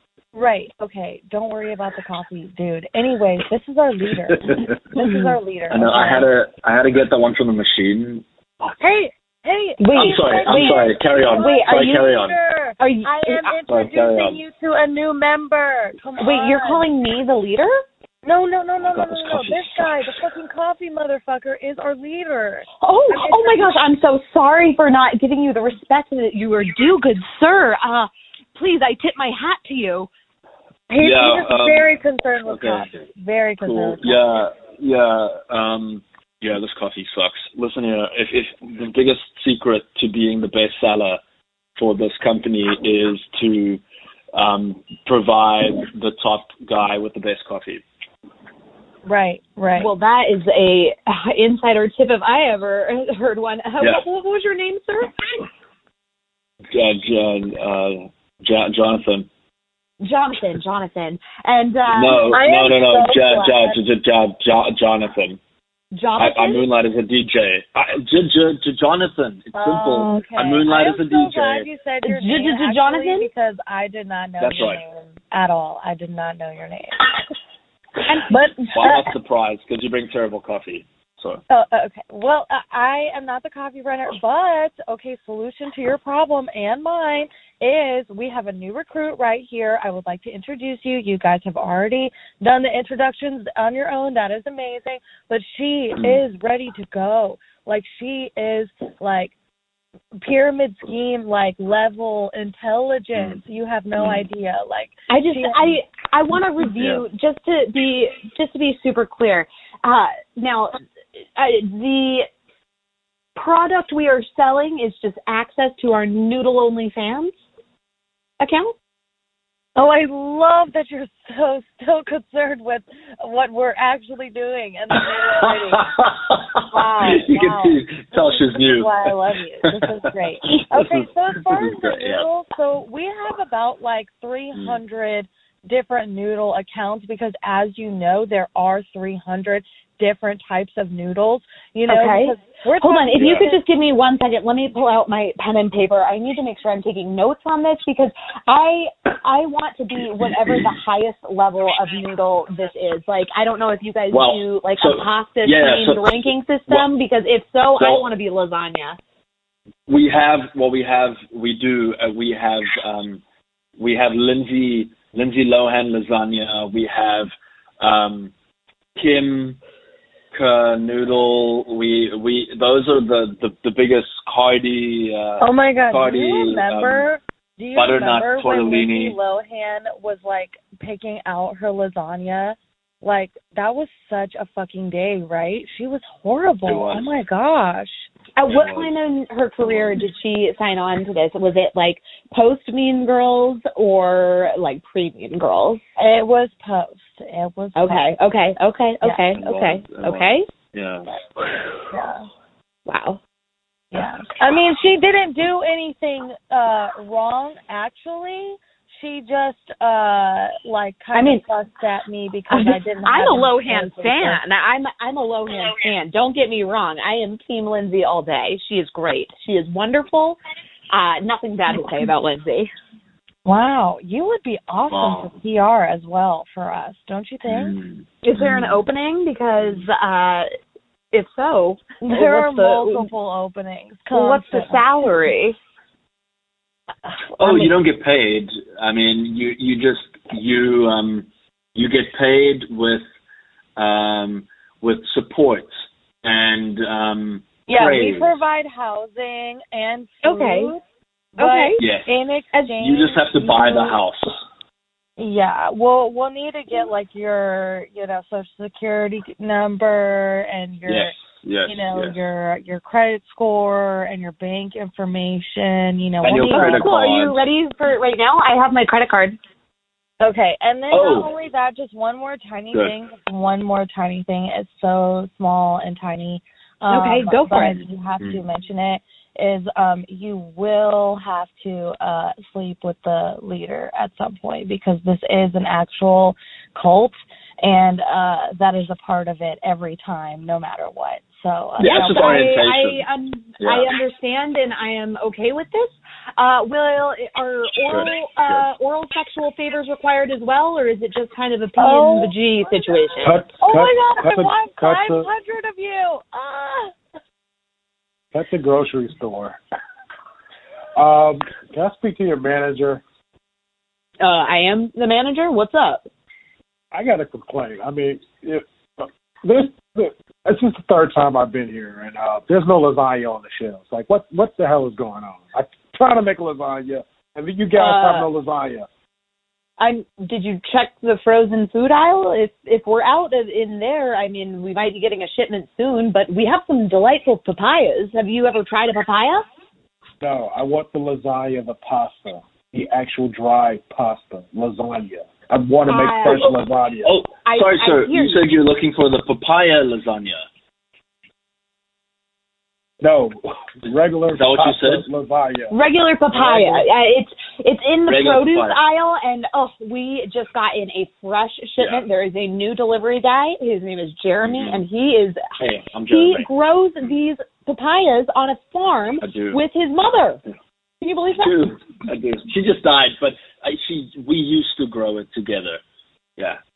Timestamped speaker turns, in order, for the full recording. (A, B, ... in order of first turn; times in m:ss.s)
0:00.3-0:06.3 A
0:05.7-0:08.7 B
0:08.8-0:16.8 A
0:09.8-0:12.1 C
0:09.9-0:12.4 B
0:12.8-0:13.5 C
0:13.7-0:14.4 B
0:16.2-0:17.7 C
0:18.2-0:23.7 A
0:18.8-0:20.1 B
0:22.8-0:30.1 C
0:30.9-0:34.2 A
0:31.0-0:31.9 B
0:32.4-0:33.1 B
0:33.6-0:41.2 B
0:41.8-0:43.8 B
0:44.3-0:47.8 B
0:49.0-0:49.9 A
0:49.8-0:55.1 C
0:56.7-0:59.3 B
1:00.0-1:02.4 C
1:01.9-1:05.4 B
1:02.3-1:03.8 A
1:05.9-1:06.7 C
1:06.2-1:11.7 B
1:09.5-1:17.1 A
1:12.0-1:13.3 C
1:14.4-1:14.8 B
1:18.3-1:19.1 A
1:18.7-1:21.4 B
1:21.5-1:39.3 A
1:36.0-1:36.2 B
1:40.2-1:45.8 A
1:44.0-1:44.3 B
1:45.1-1:50.8 C
1:46.7-1:47.0 B
1:51.4-1:52.3 C
1:53.4-1:57.3 C
1:58.4-1:58.7 C
1:59.8-2:05.9 A
2:05.0-2:12.2 B
2:06.7-2:23.6 A
2:14.5-2:14.8 B
2:21.9-2:39.0 C
2:23.1-2:23.5 B
2:34.1-2:36.8 B
2:37.8-2:38.0 B
2:39.9-2:43.2 B
2:43.8-2:48.3 B
2:49.0-2:49.6 B
2:50.3-2:57.1 B
2:55.4-3:08.1 A
2:57.7-2:59.2 B
3:06.6-3:07.1 B
3:08.4-3:15.8 C
3:08.4-3:08.9 B
3:09.6-3:10.0 B
3:16.0-3:18.0 A
3:17.8-3:20.5 C
3:19.3-3:21.1 B
3:21.5-3:21.7 C
3:21.9-3:22.3 A
3:22.9-3:23.2 C
3:23.9-3:34.4 A
3:31.1-3:31.4 C
3:32.5-3:40.4 C
3:40.9-3:42.7 C
3:43.4-3:47.7 A
3:44.9-3:45.3 B
3:47.5-3:48.8 B
3:48.2-3:50.5 C
3:51.1-3:53.1 C
3:52.0-3:55.0 A
3:54.1-3:55.6 C
3:57.1-3:57.7 A
3:57.4-4:03.0 B
4:03.8-4:05.7 B
4:06.2-4:08.4 B
4:07.7-4:10.8 A
4:10.2-4:10.7 C
4:11.4-4:11.8 C
4:11.4-4:14.0 A
4:11.8-4:12.1 B
4:12.8-4:14.4 B
4:15.2-4:21.1 A
4:20.8-4:22.2 B
4:21.6-4:26.9 A
4:26.2-4:27.4 B
4:26.4-4:29.4 C
4:30.2-4:52.6 A
4:30.9-4:31.3 B
4:36.9-4:37.8 C
4:37.6-4:38.4 B
4:51.8-4:53.0 B
4:51.8-5:03.4 C
4:53.6-4:53.9 B
4:57.9-4:58.7 B
5:01.8-5:06.9 A
5:03.2-5:05.3 D
5:08.3-5:09.6 D
5:11.0-5:13.0 D
5:14.2-5:16.1 C
5:16.9-5:28.9 D
5:27.8-5:28.3 C
5:29.8-5:39.4 C
5:40.2-5:47.1 D
5:45.8-5:46.5 C
5:47.0-5:50.4 B
5:47.4-5:48.4 C
5:53.0-5:55.8 D
5:54.3-5:55.0 B
5:55.7-6:05.4 C
5:56.4-5:56.8 B
5:58.1-5:58.8 B
6:01.8-6:02.0 B
6:04.4-6:04.8 B
6:05.6-6:06.5 B
6:06.1-6:10.4 C
6:09.2-6:09.6 B
6:11.0-6:11.6 C
6:11.4-6:15.8 B